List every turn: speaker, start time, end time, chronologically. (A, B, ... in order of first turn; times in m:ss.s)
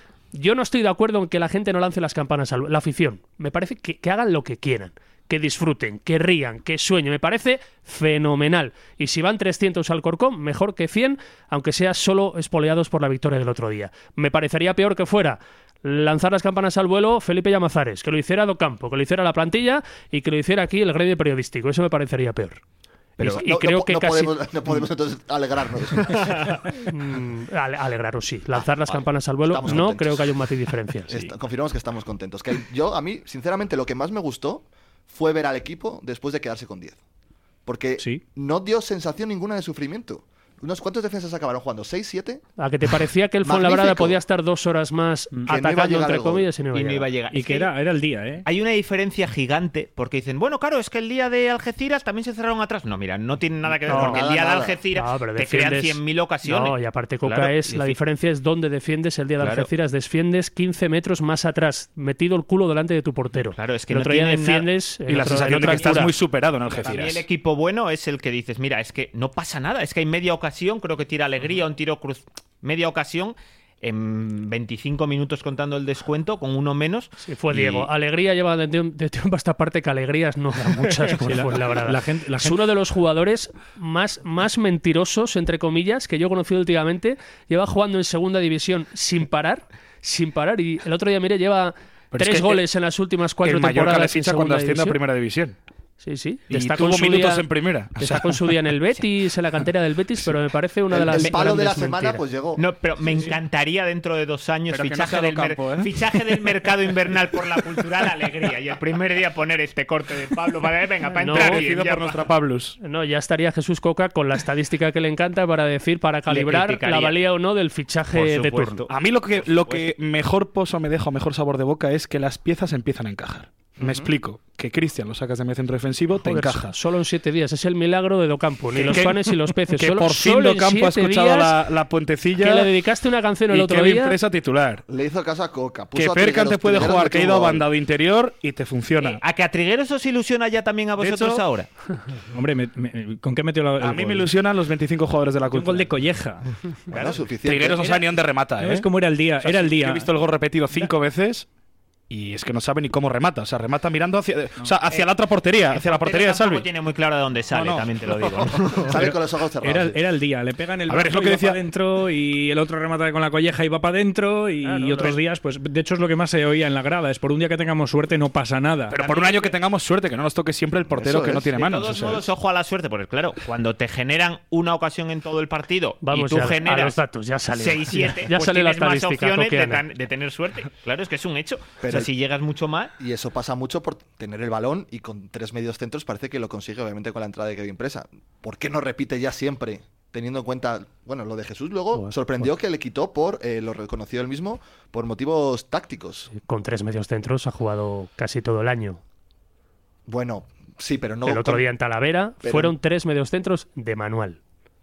0:00.3-0:22.6 A
0:23.2-0:26.7 B
0:23.2-0:24.3 A
0:26.7-0:31.1 A
0:28.5-0:30.3 B
0:31.1-0:37.0 B
0:37.6-0:42.4 B
0:38.0-0:38.2 C
0:42.6-0:47.0 A
0:43.4-0:44.2 B
0:45.5-0:46.5 B
0:46.7-0:47.7 D
0:47.3-0:48.4 C
0:48.4-0:58.0 D
0:53.9-0:54.8 B
0:53.9-0:54.2 A
0:54.9-1:06.1 A
0:59.4-0:59.7 D
1:03.5-1:04.7 D
1:05.1-1:07.2 E
1:05.4-1:06.0 D
1:06.7-1:17.9 D
1:17.2-1:35.0 A
1:21.2-1:22.6 C
1:32.1-1:32.6 E
1:33.4-1:35.6 E
1:36.0-1:42.2 A
1:36.5-1:38.5 E
1:40.9-1:42.6 B
1:42.6-1:52.3 D
1:44.7-1:46.2 E
1:51.2-1:51.6 A
1:51.3-1:52.8 E
1:52.8-1:58.8 A
1:56.3-1:57.2 D
1:58.1-1:59.9 D
1:58.9-2:06.7 E
2:06.2-2:11.6 A
2:08.8-2:12.7 E
2:12.4-2:14.2 A
2:13.5-2:14.8 E
2:14.9-2:17.6 B
2:15.9-2:19.2 E
2:19.0-2:21.7 D
2:21.0-2:21.4 E
2:22.3-2:24.3 C
2:23.8-2:25.9 E
2:25.5-2:27.1 C
2:26.9-2:28.0 B
2:27.4-2:28.9 E
2:28.6-2:30.1 C
2:29.4-2:31.5 E
2:32.1-2:36.7 E
2:35.7-2:39.0 D
2:37.5-2:38.6 E
2:38.8-2:40.0 B
2:39.0-2:49.0 C
2:40.9-2:41.6 E
2:44.6-2:45.2 A
2:48.9-2:52.2 E
2:49.0-2:49.5 D
2:50.9-2:51.5 B
2:51.5-2:57.0 D
2:56.0-2:59.8 A
2:57.5-3:02.9 D
3:01.8-3:02.1 B
3:03.0-3:16.3 B
3:16.3-3:19.0 A
3:20.1-3:21.6 B
3:21.2-3:24.4 A
3:22.4-3:22.7 B